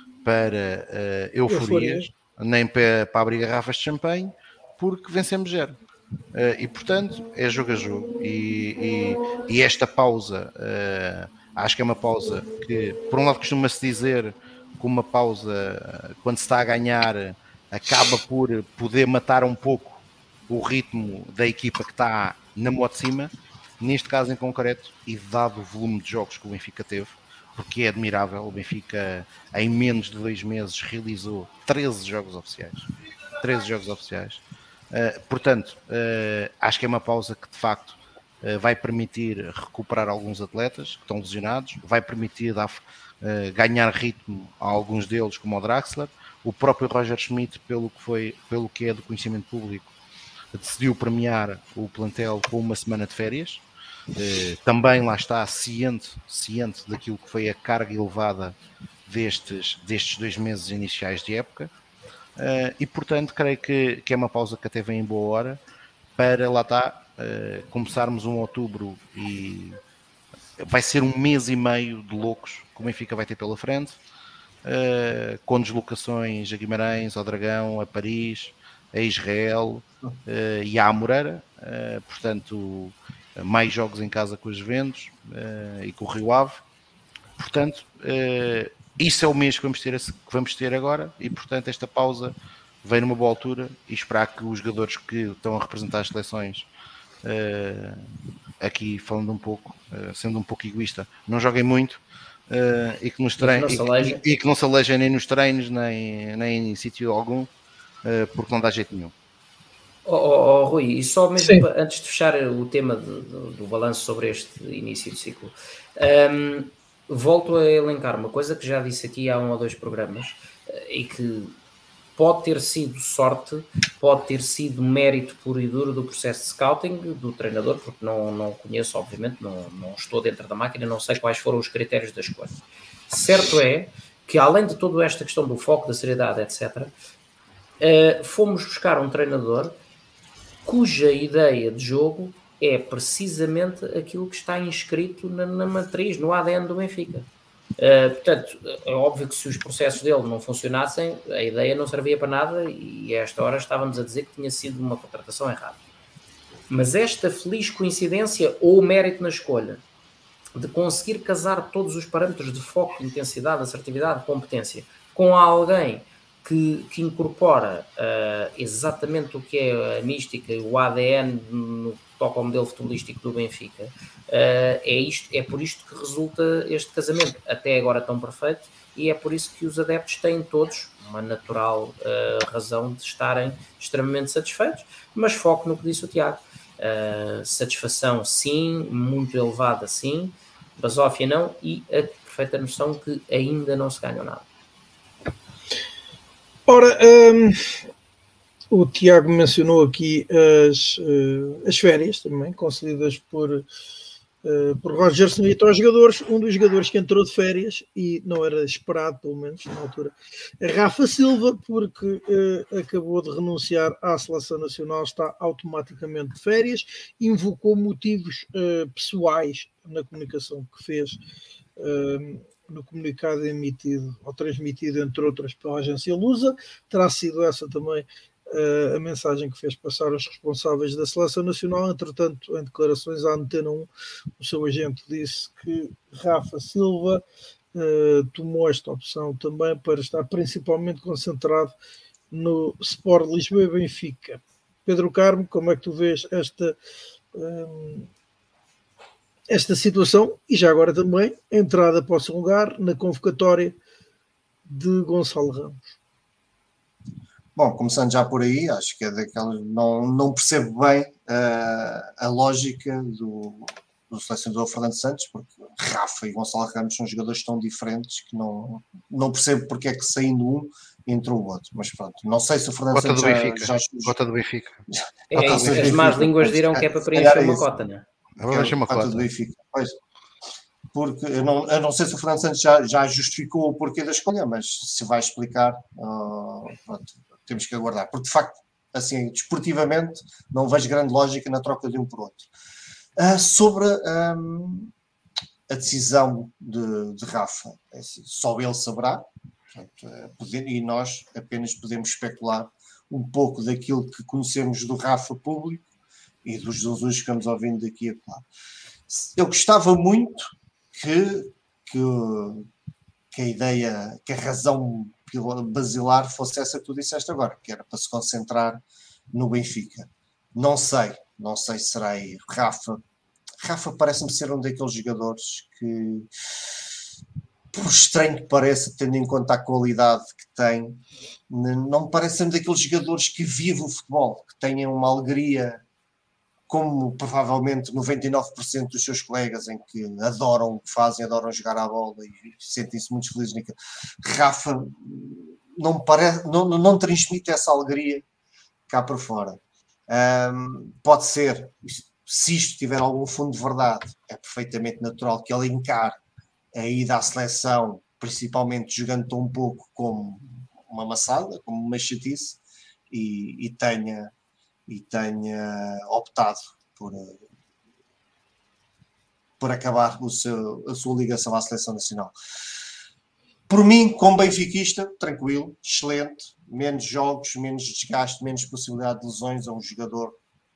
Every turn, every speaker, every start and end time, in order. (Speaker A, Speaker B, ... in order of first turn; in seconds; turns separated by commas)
Speaker A: 0.2-5.8, Speaker B: 1.5-2.1, Speaker A: 6.3-32.9, Speaker A: 33.4-49.9, Speaker A: 50.5-53.6, Speaker A: 54.1-61.7, Speaker A: 62.4-65.6, Speaker A: 66.2-69.8, Speaker A: 70.6-74.0, Speaker A: 74.6-86.6, Speaker A: 87.4-96.7, Speaker A: 97.2-98.0, Speaker A: 98.6-107.5, Speaker C: 103.4-104.2, Speaker A: 108.0-109.1, Speaker C: 110.0-121.5, Speaker B: 111.4-111.7, Speaker C: 122.2-132.6, Speaker C: 133.1-136.9, Speaker C: 137.8-139.7, Speaker C: 140.6-155.8, Speaker C: 156.7-159.8, Speaker C: 160.6-194.4, Speaker B: 196.7-197.8, Speaker B: 198.7-203.6, Speaker B: 204.4-221.2, Speaker B: 221.8-241.7, Speaker B: 242.3-246.8, Speaker B: 247.3-248.1, Speaker B: 249.5-253.8, Speaker B: 254.7-255.9, Speaker D: 257.6-274.1, Speaker A: 272.9-274.8, Speaker D: 274.9-277.7, Speaker C: 275.3-278.0, Speaker A: 275.4-275.9, Speaker A: 278.4-279.3, Speaker D: 278.5-279.9, Speaker D: 280.9-292.5, Speaker D: 293.2-294.9, Speaker D: 295.7-305.8, Speaker D: 306.4-308.4, Speaker D: 309.1-312.7, Speaker D: 313.3-323.0, Speaker D: 323.6-326.8, Speaker D: 327.7-335.8, Speaker D: 336.7-348.2, Speaker D: 348.9-356.2, Speaker D: 356.7-364.3, Speaker D: 364.9-367.4, Speaker D: 369.6-372.3, Speaker D: 373.7-380.4